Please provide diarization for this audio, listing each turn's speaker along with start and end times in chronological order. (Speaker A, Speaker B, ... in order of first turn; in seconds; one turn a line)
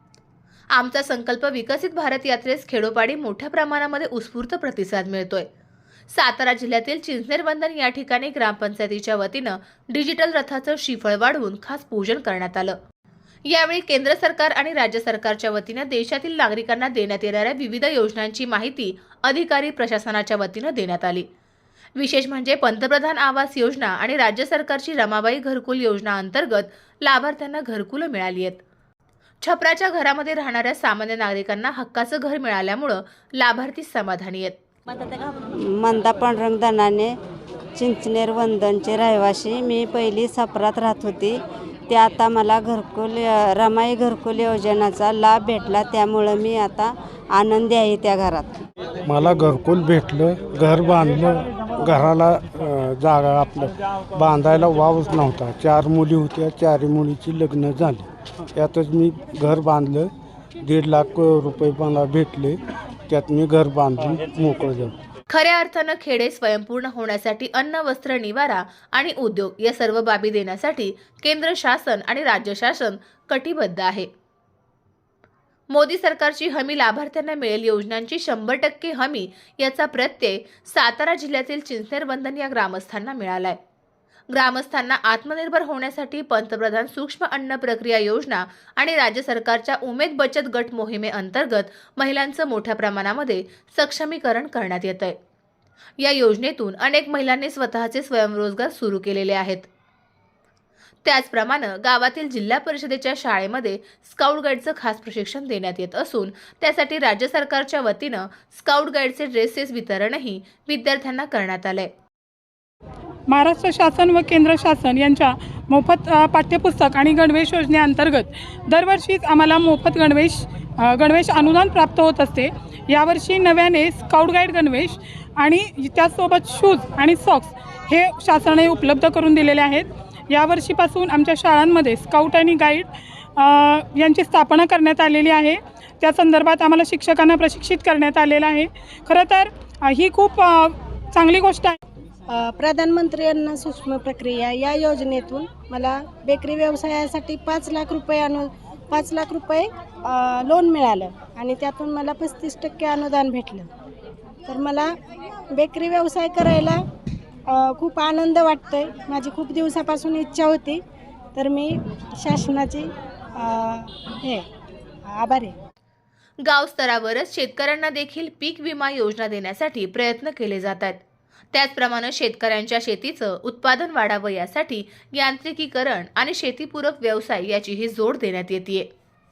Speaker A: 0.7-5.5
Speaker A: 6.1-12.8
Speaker A: 13.5-21.2
Speaker A: 22.0-28.6
Speaker A: 29.4-34.5
Speaker B: 35.5-37.1
Speaker B: 37.8-48.6
Speaker C: 49.0-60.1
Speaker C: 60.6-62.6
Speaker C: 63.1-64.9
Speaker A: 65.3-74.1
Speaker A: 75.7-83.6
Speaker A: 84.3-95.2
Speaker A: 96.0-99.7
Speaker A: 101.0-111.9
Speaker D: 113.3-141.8
Speaker E: 142.3-153.7
Speaker E: 154.4-154.9
Speaker E: 155.5-156.8
Speaker E: 157.5-160.8
Speaker E: 161.3-164.4
Speaker E: 165.0-165.6
Speaker A: 166.4-171.0
Speaker A: 171.5-178.9